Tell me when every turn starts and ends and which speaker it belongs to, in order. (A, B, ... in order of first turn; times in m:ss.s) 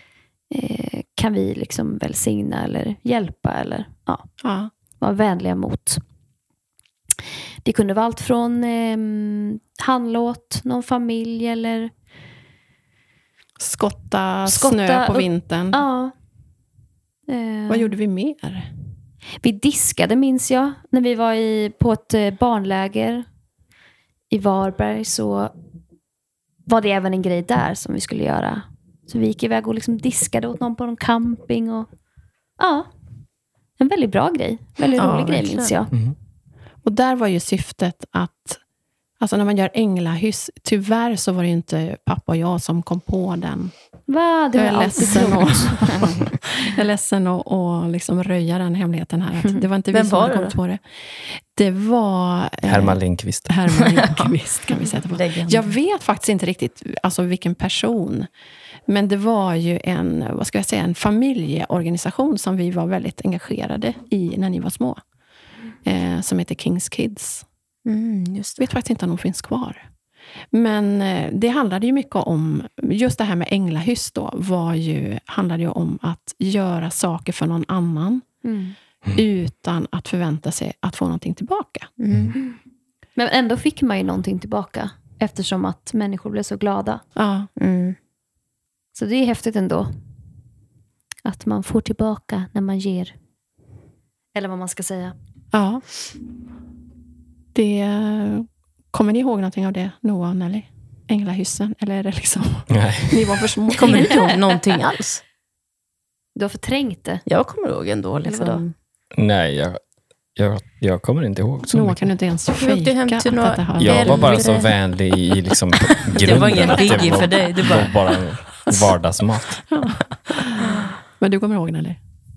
0:00.5-0:04.3 A
0:04.4-0:04.7 B
0:05.0-0:06.0 A
0:07.6-0:11.9 A
0:13.6-0:15.8 B
0:14.4-0:16.1 A
0:17.3-0:18.0 A
0:17.7-0:18.7 B
0:19.4-0:23.2 A
0:24.3-0:25.5 A
0:26.6-0:31.9 A
0:32.6-0:32.9 A
0:33.8-0:35.9 A
0:35.0-0:35.7 C
0:36.8-0:38.6 B
0:39.2-0:43.7 B
0:44.1-0:46.0 A
0:44.5-0:58.3 B
0:49.9-0:50.6 C
0:52.6-0:53.6 D
0:53.8-0:54.3 C
0:55.1-0:55.7 C
0:58.9-1:05.0 B
1:05.8-1:07.4 B
1:07.8-1:08.6 C
1:08.6-1:09.8 B
1:10.5-1:18.2 B
1:18.4-1:18.8 A
1:19.1-1:21.9 B
1:22.0-1:22.4 C
1:23.2-1:27.0 A
1:27.1-1:27.5 B
1:27.6-1:28.0 C
1:28.9-1:29.9 A
1:31.2-1:33.1 A
1:34.3-1:35.1 A
1:35.5-1:35.8 B
1:37.5-1:44.2 B
1:42.7-1:43.4 D
1:43.7-1:45.2 C
1:44.0-1:44.3 A
1:46.4-1:47.2 A
1:47.2-1:48.7 C
1:48.2-1:48.6 A
1:49.1-1:49.8 D
1:50.4-1:52.1 D
1:51.7-1:54.4 B
1:52.6-1:54.7 C
1:53.8-1:59.6 D
1:56.1-1:57.9 C
1:59.7-2:02.0 B
2:00.6-2:00.9 C